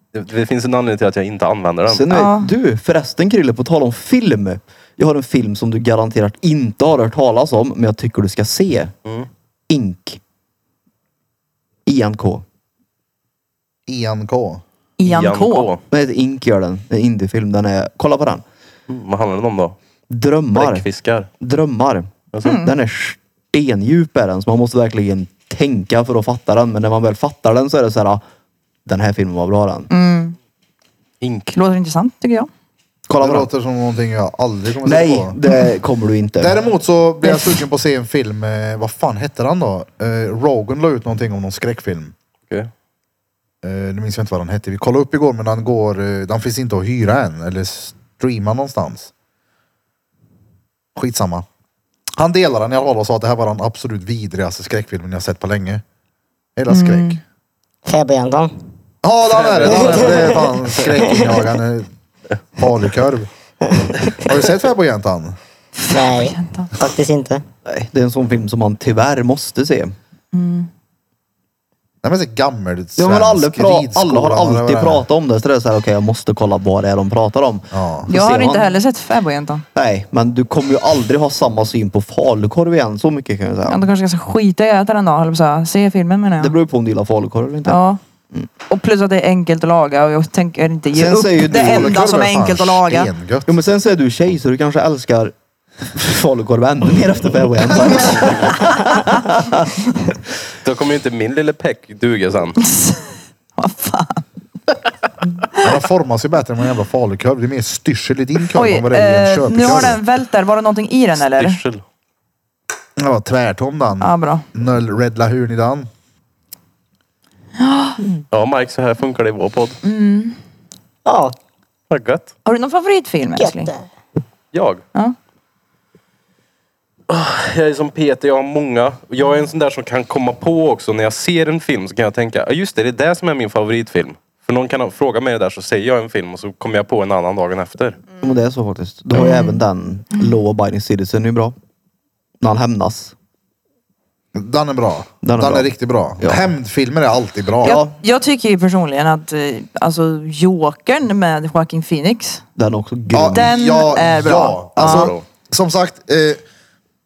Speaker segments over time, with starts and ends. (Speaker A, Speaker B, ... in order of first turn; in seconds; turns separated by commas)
Speaker A: 0.1-2.1, Speaker B: 1.9-8.9, Speaker C: 2.1-2.5, Speaker B: 9.7-10.2, Speaker B: 11.8-12.4, Speaker D: 13.9-14.6, Speaker C: 15.0-15.7, Speaker A: 15.0-15.8, Speaker B: 15.9-18.4, Speaker A: 18.9-19.8, Speaker B: 20.1-20.9, Speaker A: 20.5-21.3, Speaker B: 21.4-28.2, Speaker C: 22.4-22.7, Speaker B: 28.9-29.9, Speaker C: 29.9-30.4, Speaker A: 31.2-31.5, Speaker C: 31.5-32.5, Speaker B: 33.1-33.5, Speaker D: 33.2-35.4, Speaker B: 34.8-36.6, Speaker D: 36.4-42.1, Speaker C: 37.3-37.6, Speaker D: 43.6-49.1, Speaker D: 51.0-51.5, Speaker D: 52.2-55.8, Speaker D: 56.5-57.2, Speaker C: 56.7-57.2, Speaker E: 57.9-58.5, Speaker D: 59.0-61.9, Speaker A: 59.3-60.5, Speaker E: 59.7-60.4, Speaker E: 61.0-61.3, Speaker D: 62.6-63.3, Speaker E: 63.7-64.2, Speaker D: 64.1-65.4, Speaker C: 65.8-66.7, Speaker E: 65.9-67.4, Speaker B: 67.6-70.0, Speaker C: 70.3-70.7, Speaker D: 72.0-75.1, Speaker B: 73.0-78.8, Speaker D: 77.7-78.1, Speaker C: 78.1-79.6, Speaker B: 79.7-83.9, Speaker C: 83.7-86.5, Speaker B: 86.4-87.8, Speaker C: 87.6-88.0, Speaker C: 88.7-93.1, Speaker B: 90.9-92.0, Speaker D: 91.5-93.5, Speaker B: 93.5-95.3, Speaker B: 95.9-99.8, Speaker C: 98.7-99.1, Speaker A: 100.6-102.6, Speaker C: 102.6-104.2, Speaker D: 105.6-110.0, Speaker C: 108.5-111.6, Speaker A: 111.2-111.8, Speaker D: 113.0-115.9, Speaker C: 114.0-114.5, Speaker C: 117.6-118.0, Speaker A: 118.3-119.8, Speaker C: 119.8-120.4, Speaker E: 121.0-121.3, Speaker A: 121.9-122.3, Speaker C: 122.4-123.7, Speaker E: 123.4-123.8, Speaker A: 124.5-124.8, Speaker A: 127.1-138.0, Speaker B: 138.2-141.5, Speaker C: 139.1-139.6, Speaker B: 142.4-143.1, Speaker D: 144.3-147.8, Speaker B: 145.2-146.5, Speaker B: 147.6-147.9, Speaker C: 147.6-152.4, Speaker B: 152.6-153.6, Speaker D: 153.1-156.4, Speaker C: 153.3-155.1, Speaker A: 154.8-155.2